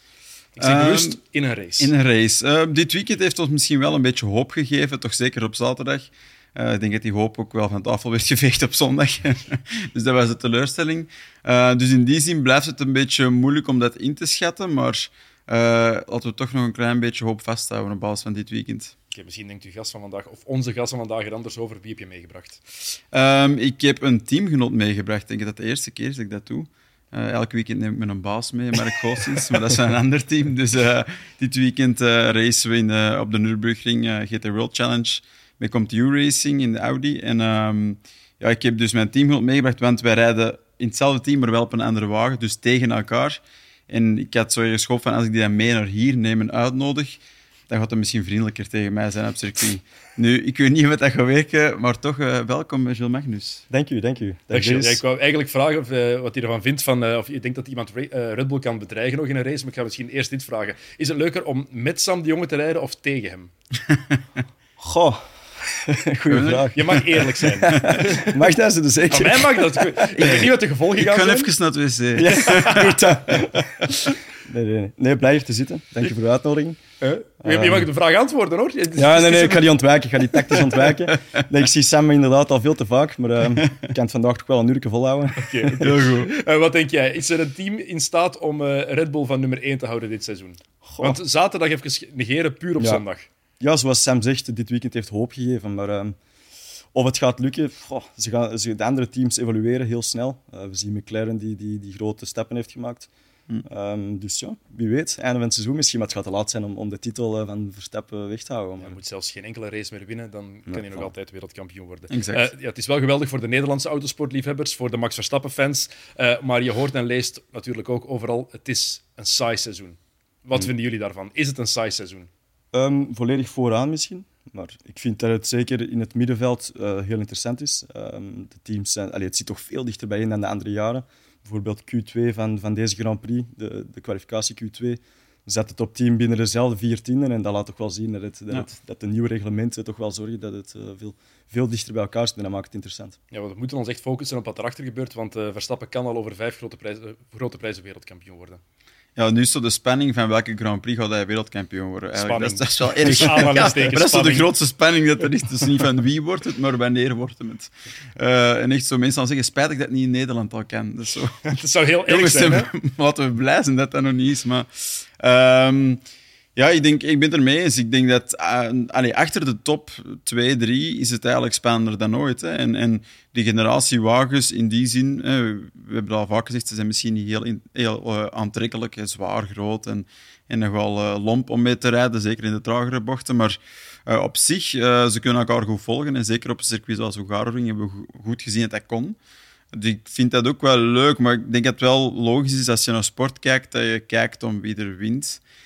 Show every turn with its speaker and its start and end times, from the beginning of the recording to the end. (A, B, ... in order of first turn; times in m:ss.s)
0:00.6-0:01.9 A
0:00.6-0:01.2 B
0:01.8-0:19.0 B
0:19.1-0:22.6 A
0:23.1-0:53.6 B
0:53.7-0:55.0 C
0:54.5-1:03.5 A
1:04.8-1:10.4 C
1:06.3-1:07.2 B
1:06.7-1:08.1 A
1:07.7-1:08.2 B
1:09.1-1:11.5 A
1:10.2-1:13.5 B
1:12.2-1:16.8 C
1:17.0-1:19.8 A
1:17.4-1:17.9 C
1:19.0-1:26.0 C
1:25.4-1:33.3 A
1:25.8-1:26.3 B
1:30.8-1:31.2 C
1:32.8-1:33.0 C
1:33.6-1:36.2 C
1:36.9-1:43.1 C
1:43.6-1:49.0 C
1:48.8-2:02.3 A
1:50.7-1:51.0 C
1:52.1-1:52.5 B
2:02.7-2:23.2 C
2:23.3-2:28.6 A
2:29.2-2:41.4 B
2:32.2-2:34.5 A
2:41.4-2:42.7 A
2:42.1-2:46.0 B
2:46.6-3:09.2 B
3:09.7-3:15.4 B